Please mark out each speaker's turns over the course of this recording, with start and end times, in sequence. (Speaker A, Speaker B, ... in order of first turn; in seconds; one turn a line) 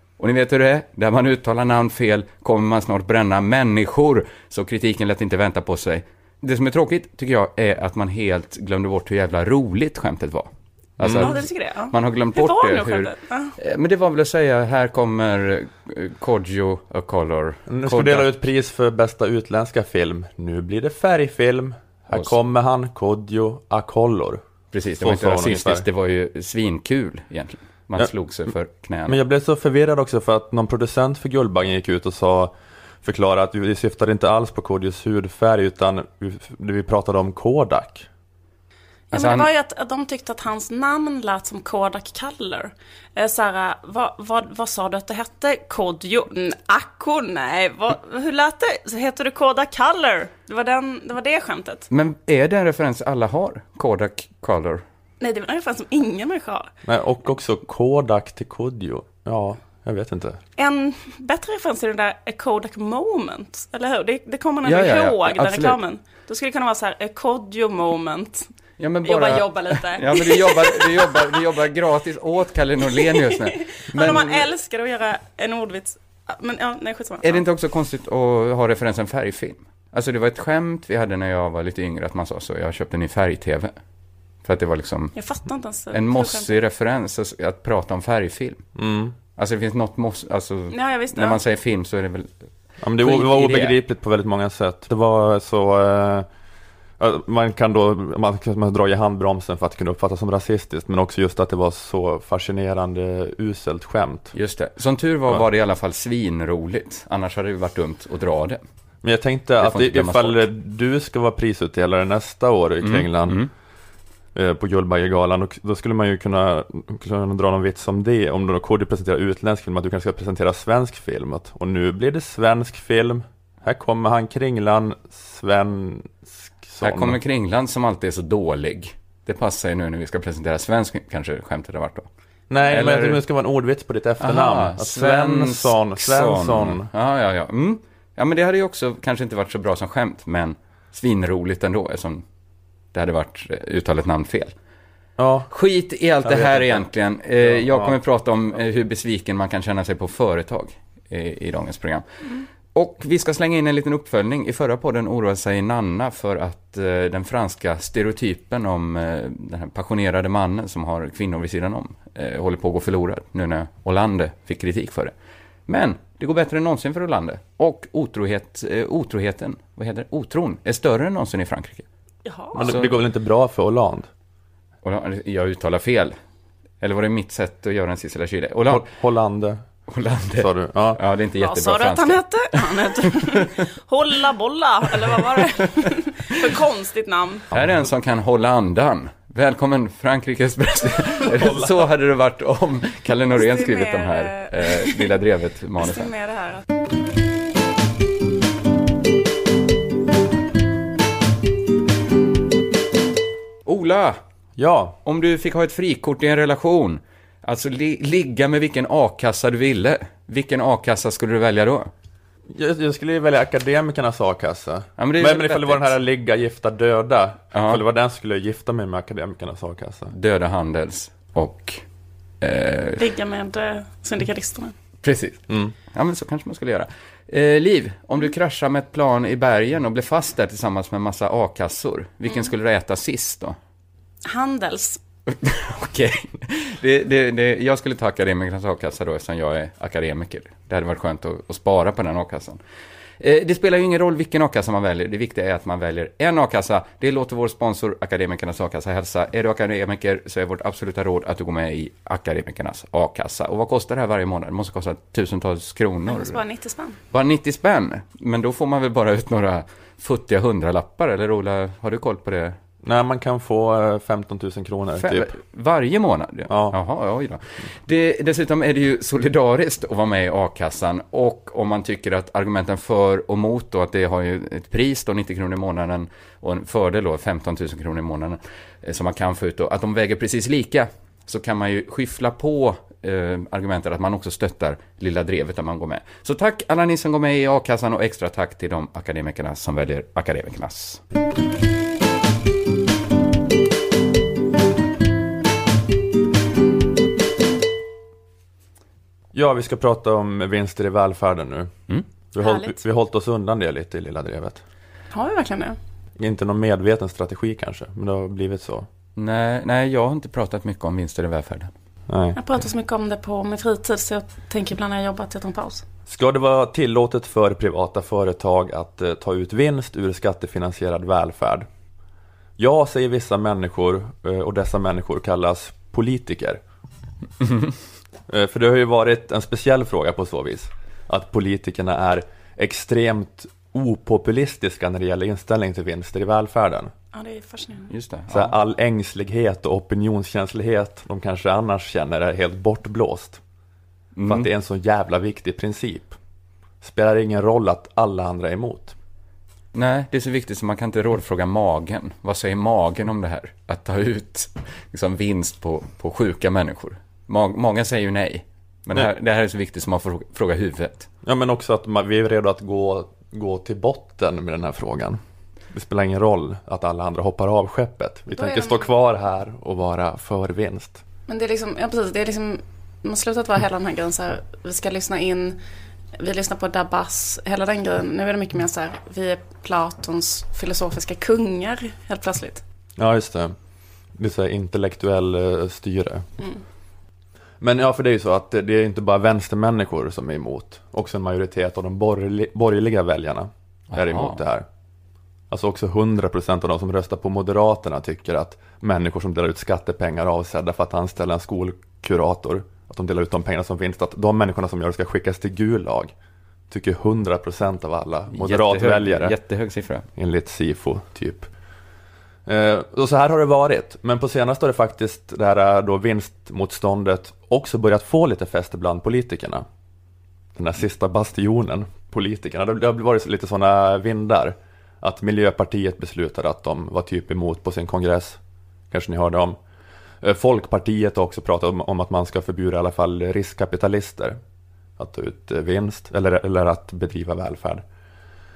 Speaker A: 0.2-18.3
Speaker B: 11.0-11.3
Speaker C: 11.2-13.6
Speaker B: 17.7-24.4
Speaker A: 24.7-29.2
Speaker B: 25.0-25.9
Speaker B: 29.1-38.1
Speaker A: 39.1-39.5
Speaker C: 39.1-51.9
Speaker A: 51.9-54.8
Speaker C: 55.2-56.7
Speaker B: 56.8-60.4
Speaker C: 60.6-68.5
Speaker A: 64.6-65.8
Speaker A: 68.8-74.5
Speaker C: 69.0-71.4
Speaker C: 72.9-77.4
Speaker A: 77.2-83.7
Speaker A: 84.4-85.1
Speaker C: 85.2-86.5
Speaker A: 85.9-88.6
Speaker B: 88.8-89.2
Speaker A: 89.4-92.3
Speaker C: 90.7-91.4
Speaker B: 92.8-96.3
Speaker A: 93.0-93.8
Speaker B: 97.0-104.3
Speaker A: 104.3-108.6
Speaker B: 109.0-113.4
Speaker A: 109.6-110.5
Speaker A: 112.8-113.5
Speaker B: 114.3-127.2
Speaker A: 126.8-132.1
Speaker B: 132.5-136.9
Speaker A: 132.7-133.2
Speaker A: 134.2-142.2
Speaker A: 142.9-144.5
Speaker B: 145.2-145.5
Speaker A: 145.5-152.0
Speaker B: 146.2-146.9
Speaker B: 147.4-148.0
Speaker A: 152.7-165.1
Speaker A: 165.7-171.8
Speaker C: 172.2-172.6
Speaker A: 172.5-173.0
Speaker B: 172.6-174.1
Speaker A: 174.8-176.2
Speaker A: 176.8-178.8
Speaker B: 178.7-179.6
Speaker A: 179.9-183.5
Speaker B: 180.4-181.0
Speaker C: 181.4-187.4
Speaker A: 187.5-196.1
Speaker B: 191.3-191.6
Speaker C: 193.3-195.1
Speaker C: 195.8-196.7
Speaker A: 203.7-204.2
Speaker B: 204.6-205.0
Speaker A: 205.1-211.9
Speaker B: 212.5-220.1
Speaker A: 215.0-216.0
Speaker A: 217.5-217.8
Speaker A: 220.1-221.8
Speaker A: 222.4-223.0
Speaker C: 223.0-224.8
Speaker A: 225.0-233.6
Speaker C: 234.2-235.0
Speaker A: 235.3-242.6
Speaker A: 243.2-256.4
Speaker C: 256.1-257.0
Speaker A: 257.1-262.6
Speaker B: 262.9-265.4
Speaker A: 265.0-291.0
Speaker B: 266.5-266.8
Speaker B: 299.3-301.7
Speaker B: 302.3-304.6
Speaker C: 302.4-302.8
Speaker C: 305.1-305.8
Speaker B: 306.2-308.9
Speaker A: 309.2-311.7
Speaker B: 312.1-312.4
Speaker C: 312.4-315.8
Speaker B: 316.1-321.7
Speaker B: 322.6-326.6
Speaker B: 328.3-336.9
Speaker C: 337.1-337.9
Speaker A: 337.9-338.6
Speaker B: 338.3-343.4
Speaker A: 344.2-344.5
Speaker B: 344.3-346.2
Speaker B: 346.8-348.9
Speaker A: 349.7-361.1
Speaker B: 361.2-365.2
Speaker B: 365.7-371.0
Speaker C: 368.3-368.9
Speaker C: 371.3-375.6
Speaker C: 376.1-382.6
Speaker B: 383.0-383.6
Speaker B: 384.2-386.3
Speaker B: 387.6-394.7
Speaker A: 393.9-394.4
Speaker B: 395.5-406.1
Speaker B: 406.7-409.4
Speaker A: 408.3-410.1
Speaker B: 410.2-411.5
Speaker B: 412.5-419.6
Speaker B: 420.6-428.4
Speaker B: 428.9-429.6
Speaker B: 430.2-434.4
Speaker B: 435.0-437.8